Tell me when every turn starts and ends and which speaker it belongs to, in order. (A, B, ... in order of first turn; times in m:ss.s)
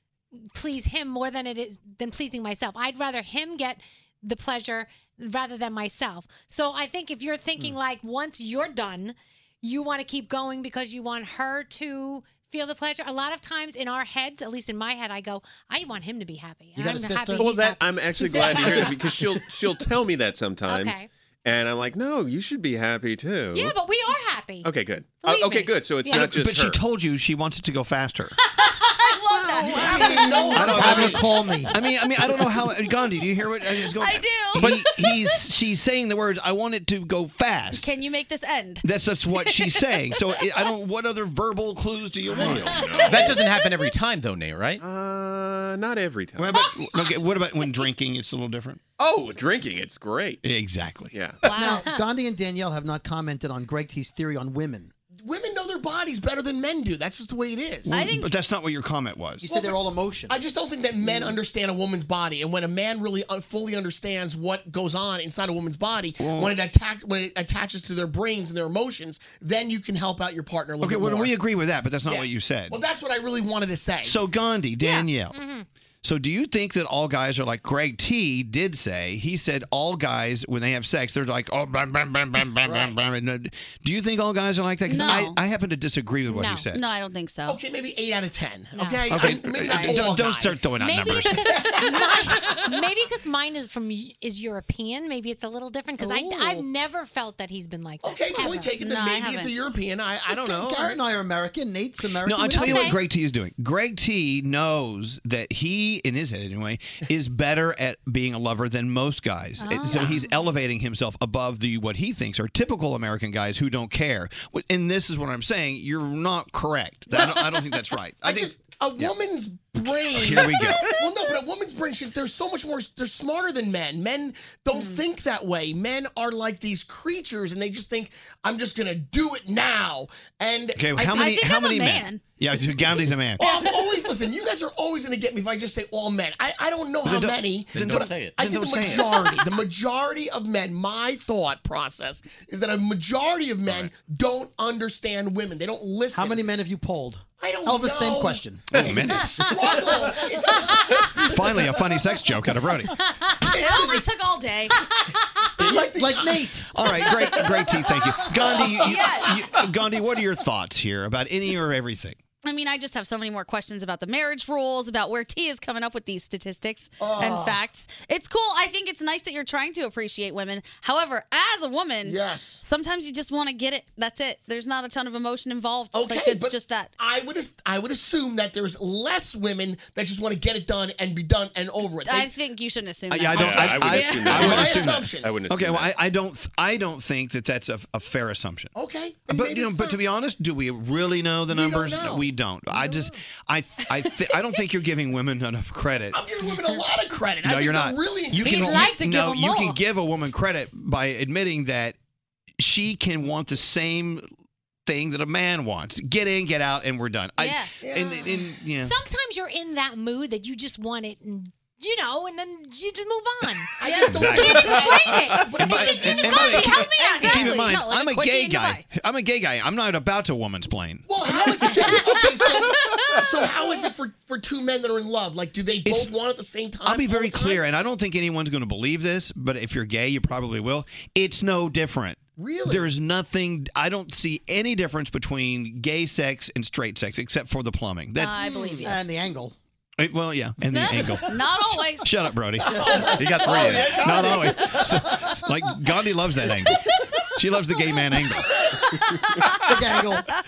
0:00.5-0:19.0 A
0:16.8-0:17.4 B
0:17.4-0:23.8 C
0:18.3-0:18.9 B
0:20.7-0:21.1 A
0:23.5-0:24.7 A
0:24.6-0:26.8 C
0:25.2-0:26.3 A
0:26.1-0:28.4 D
0:28.8-0:31.0 E
0:29.6-0:31.3 F
0:29.8-0:31.7 B
0:30.5-0:37.8 D
0:32.3-0:32.6 E
0:33.6-0:35.2 E
0:37.7-0:40.1 E
0:38.8-0:43.4 D
0:42.3-0:43.3 C
0:42.5-0:42.8 A
0:43.0-0:44.8 G
0:44.8-0:46.5 C
0:46.4-0:48.8 D
0:49.0-0:50.4 C
0:50.4-0:51.1 D
0:51.1-0:51.5 C
0:51.5-0:52.0 A
0:51.5-0:54.9 B
0:55.2-0:58.0 F
0:57.8-0:59.4 D
0:57.9-0:58.3 E
0:59.4-1:00.4 B
0:59.4-1:11.4 F
1:06.2-1:06.6 D
1:10.8-1:12.8 D
1:12.0-1:14.2 F
1:14.0-1:15.4 D
1:14.8-1:15.1 E
1:15.3-1:15.6 A
1:16.0-1:26.8 D
1:22.6-1:22.9 F
1:24.9-1:25.4 E
1:26.3-1:26.6 A
1:26.7-1:27.6 E
1:27.5-1:30.7 F
1:28.7-1:29.0 A
1:29.1-1:31.5 D
1:29.3-1:30.2 E
1:30.8-1:38.7 A
1:31.3-1:32.4 F
1:36.0-1:36.6 E
1:38.0-1:41.0 F
1:38.4-1:39.5 E
1:40.4-1:42.9 B
1:42.2-1:59.2 D
1:42.5-1:42.9 E
1:42.5-1:43.0 A
1:49.6-1:50.2 E
1:57.1-1:57.6 F
1:58.2-2:11.3 F
2:00.1-2:00.8 D
2:10.8-2:13.4 D
2:11.0-2:12.2 E
2:13.4-2:26.5 F
2:17.0-2:19.2 D
2:17.7-2:19.0 G
2:26.1-2:29.1 B
2:27.4-2:31.0 F
2:28.7-2:29.5 D
2:28.7-2:29.0 C
2:31.3-2:32.9 D
2:33.5-2:34.8 E
2:33.5-2:34.1 F
2:35.6-2:38.6 F
2:35.6-2:36.6 B
2:36.7-2:42.2 D
2:38.7-2:39.4 E
2:42.4-2:56.9 E
2:47.0-2:47.6 F
2:52.0-2:52.6 F
2:55.9-3:02.3 F
3:02.0-3:04.8 E
3:03.1-3:08.7 D
3:03.3-3:06.0 C
3:04.3-3:05.5 F
3:08.7-3:10.0 F
3:09.3-3:16.8 D
3:11.5-3:13.1 F
3:16.1-3:19.0 F
3:17.4-3:22.0 D
3:18.4-3:19.8 A
3:22.6-3:24.2 D
3:24.8-3:29.0 D
3:27.4-3:27.7 E
3:27.8-3:28.3 F
3:28.6-3:37.8 A
3:33.8-3:36.7 F
3:34.0-3:41.1 D
3:36.1-3:38.8 E
3:41.1-3:47.6 F
3:45.8-3:46.1 D
3:46.8-3:58.5 D
3:52.4-3:52.9 F
3:58.2-3:59.0 E
3:58.8-3:59.5 B
4:00.0-4:01.4 D
4:00.7-4:02.1 E
4:02.0-4:08.7 D
4:02.7-4:04.7 B
4:03.2-4:03.9 G
4:03.7-4:04.6 E
4:09.6-4:10.3 B